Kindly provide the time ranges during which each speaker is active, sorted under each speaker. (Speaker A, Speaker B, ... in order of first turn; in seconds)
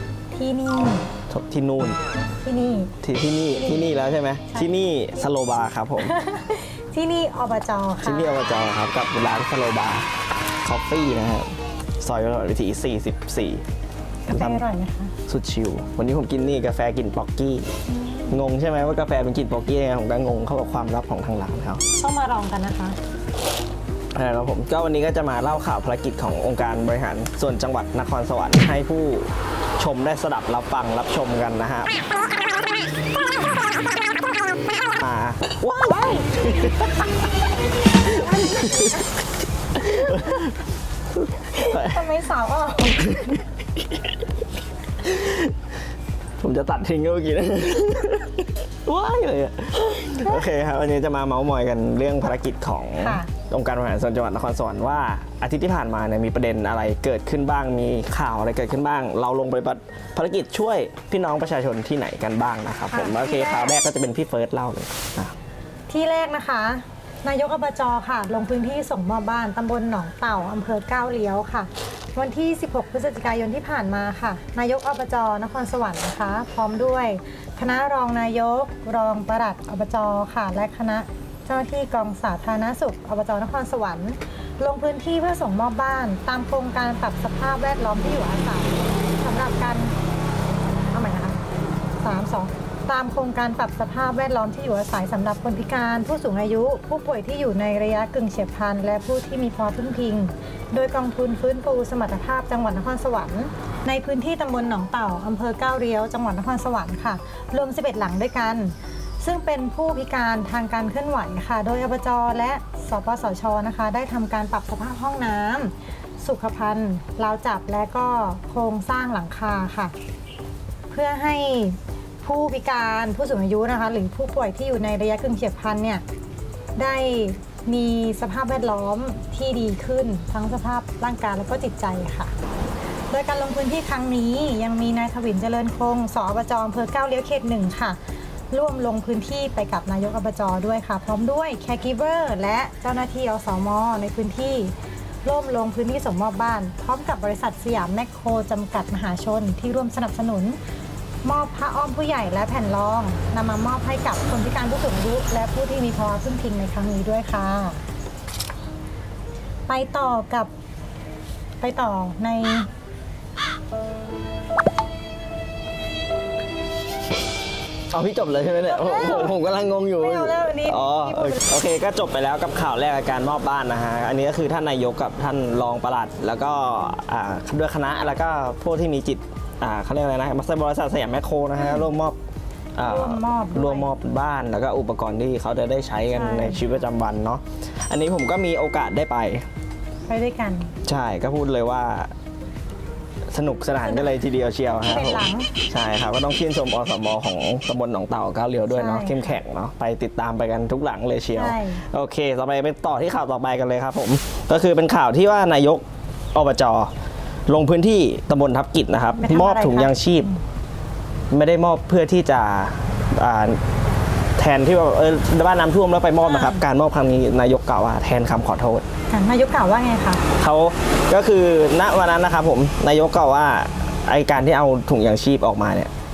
Speaker A: 0.3-1.1, 2.4-2.9, 3.5-3.9, 6.0-8.4, 14.3-15.1, 17.9-18.4, 22.0-23.0, 38.1-38.9, 40.0-40.4, 41.5-43.4, 53.0-53.3, 62.9-63.7, 65.9-90.0, 90.9-91.4, 92.0-120.0, 120.9-126.0, 126.8-132.3, 133.1-138.0, 138.5-150.6, 151.2-157.8, 159.7-160.5, 161.6-162.7, 168.7-169.4, 170.0-171.4, 182.8-183.9, 186.0-186.6, 190.1-190.7, 193.8-194.1, 194.8-195.5, 198.7-199.3, 201.3-201.8, 209.2-210.3, 216.2-216.6, 219.1-220.2
Speaker B: 1.3-2.0, 3.0-6.2, 8.0-10.1, 10.6-13.6, 14.3-14.6, 15.3-17.7, 18.3-21.8, 24.1-32.2, 34.9-37.2, 38.0-39.0, 39.8-40.5, 41.5-42.1, 45.0-45.5, 46.4-65.3, 167.9-182.2, 182.8-189.5, 190.8-192.1, 193.3-206.9, 207.5-210.3, 211.3-213.6, 214.4-218.8, 220.4-225.9